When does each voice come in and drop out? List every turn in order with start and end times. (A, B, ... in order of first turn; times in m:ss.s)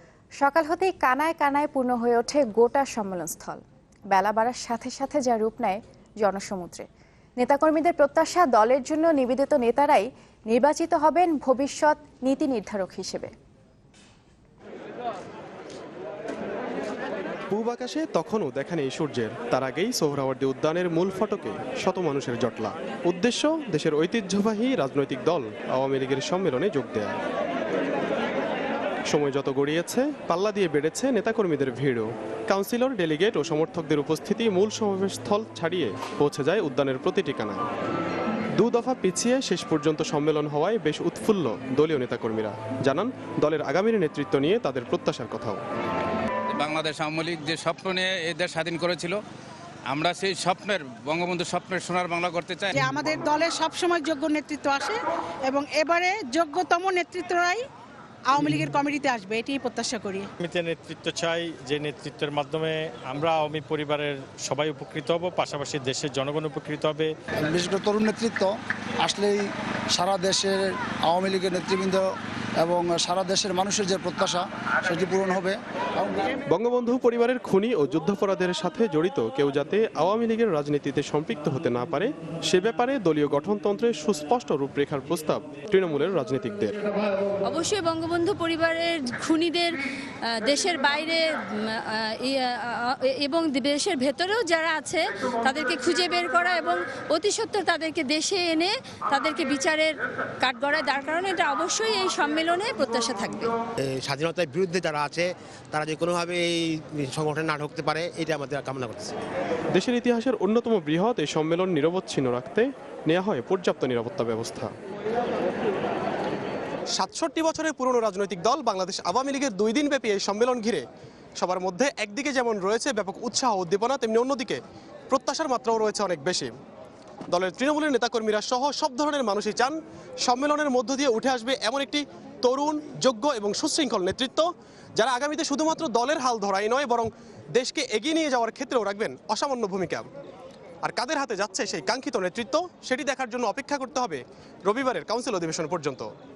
0:00.4-0:06.9 A
0:07.4-0:13.3 A
0:17.5-0:27.2 B
0:29.1-0:37.6 B
0:38.6-0:45.6 B
0:46.5-0:49.2 C
0:49.9-0:53.0 C
0:52.7-0:57.6 D
0:58.3-1:00.3 D
1:00.4-1:07.1 E
1:07.4-1:12.1 F
1:12.6-1:16.4 F
1:16.5-1:26.8 B
1:27.4-1:43.5 G
1:43.8-1:49.2 H
1:49.7-1:54.7 B
1:57.0-2:00.8 B
2:01.4-2:06.5 B
2:07.3-2:20.1 B
2:20.8-2:26.1 B